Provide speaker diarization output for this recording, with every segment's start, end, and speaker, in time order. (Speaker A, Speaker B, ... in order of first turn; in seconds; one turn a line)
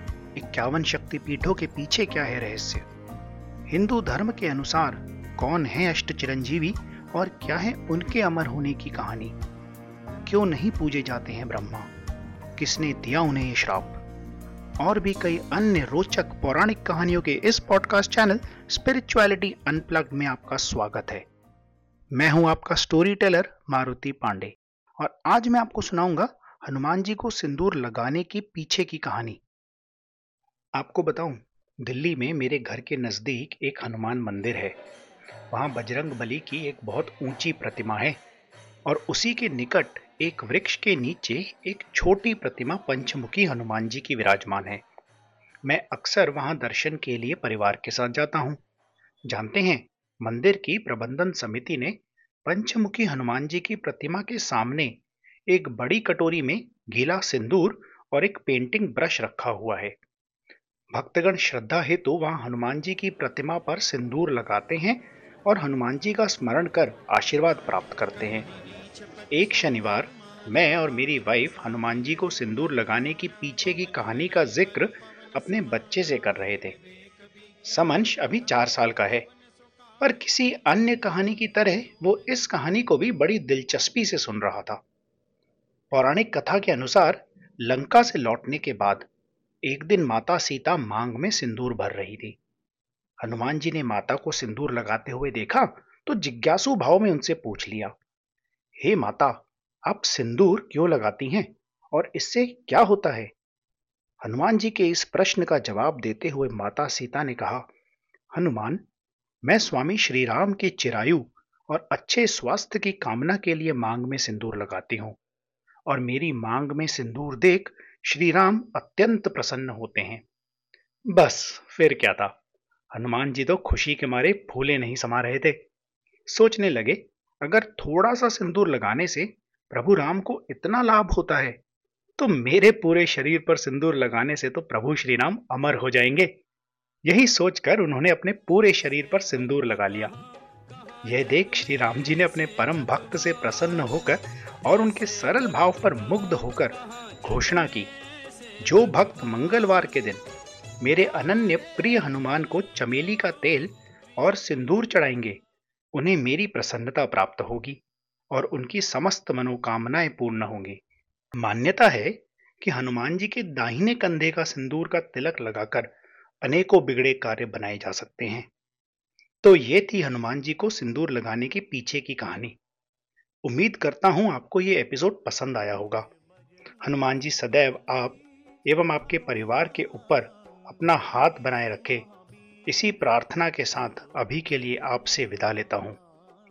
Speaker A: 0.3-2.9
Speaker A: 3.7-9.3
Speaker A: 10.2-11.9
Speaker A: 12.6-14.0
Speaker A: 14.8-21.2
Speaker A: 22.1-29.4
Speaker A: 30.8-34.8
Speaker A: 35.5-38.2
Speaker A: 38.9-44.8
Speaker A: 45.6-48.6
Speaker A: 49.3-54.9
Speaker A: 55.5-60.0
Speaker A: 60.9-68.5
Speaker A: 69.3-76.8
Speaker A: 77.6-79.3
Speaker A: 80.0-84.8
Speaker A: 85.9-89.1
Speaker A: 89.7-92.4
Speaker A: 93.2-97.9
Speaker A: 98.8-103.3
Speaker A: 104.2-107.7
Speaker A: 108.3-108.8
Speaker A: 109.4-115.2
Speaker A: 115.9-120.2
Speaker A: 121.1-122.3
Speaker A: 122.9-125.6
Speaker A: 126.3-131.6
Speaker A: 132.2-136.3
Speaker A: 137.1-140.1
Speaker A: 141.1-147.9
Speaker A: 148.6-150.2
Speaker A: 150.8-155.4
Speaker A: 155.9-160.8
Speaker A: 161.4-168.5
Speaker A: 169.4-172.6
Speaker A: 173.4-176.1
Speaker A: 176.8-182.1
Speaker A: 182.7-186.0